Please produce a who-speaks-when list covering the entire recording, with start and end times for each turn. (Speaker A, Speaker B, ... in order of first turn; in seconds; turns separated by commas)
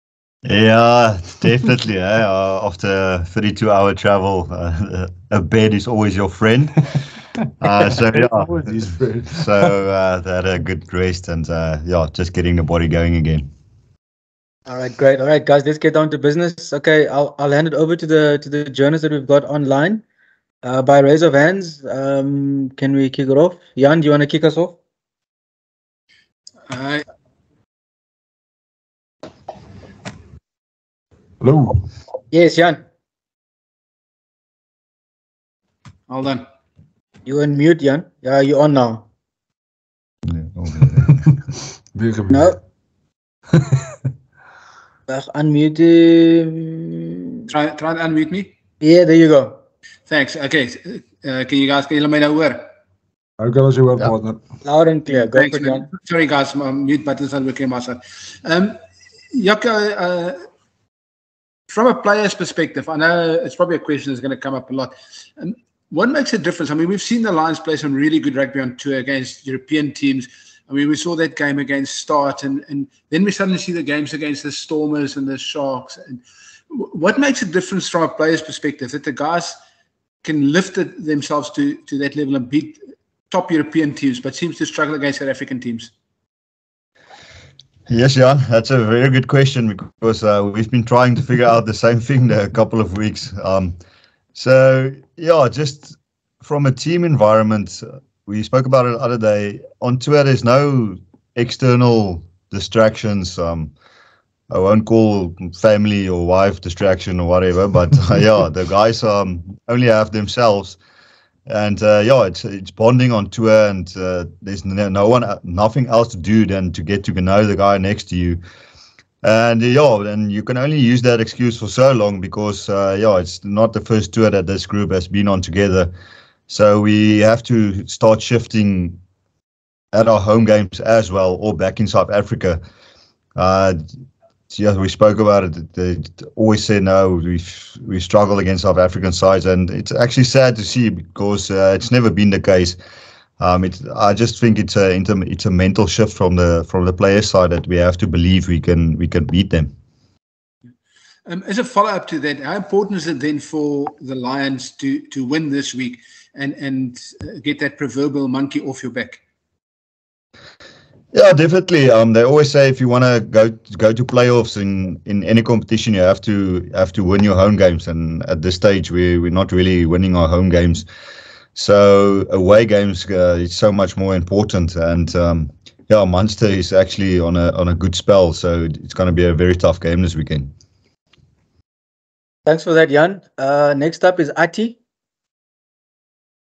Speaker A: 0.5-6.9, Speaker A: 7.6-8.5, Speaker B: 7.9-9.7, Speaker A: 9.3-13.5, Speaker C: 14.7-20.0, Speaker C: 20.6-24.8, Speaker D: 26.7-27.0, Speaker B: 31.4-31.8, Speaker C: 32.3-32.8, Speaker D: 36.1-36.5, Speaker C: 37.2-39.1, Speaker A: 40.3-41.2, Speaker B: 41.9-42.6, Speaker C: 42.3-42.6, Speaker C: 45.1-47.5, Speaker D: 47.5-48.5, Speaker C: 48.8-49.6, Speaker D: 50.1-52.7, Speaker B: 53.4-54.4, Speaker C: 54.6-55.9, Speaker D: 55.1-58.8, Speaker D: 59.3-60.4, Speaker D: 61.7-79.6, Speaker D: 80.2-82.8, Speaker D: 83.3-85.9, Speaker A: 87.9-93.8, Speaker A: 94.3-103.7, Speaker A: 104.5-110.8, Speaker A: 111.5-118.4, Speaker A: 119.2-125.9, Speaker A: 126.5-129.0, Speaker A: 129.9-132.6, Speaker A: 133.4-133.8, Speaker A: 134.5-142.8, Speaker A: 143.4-149.7, Speaker D: 151.3-159.2, Speaker A: 161.1-170.9, Speaker A: 171.6-180.5, Speaker C: 182.5-184.8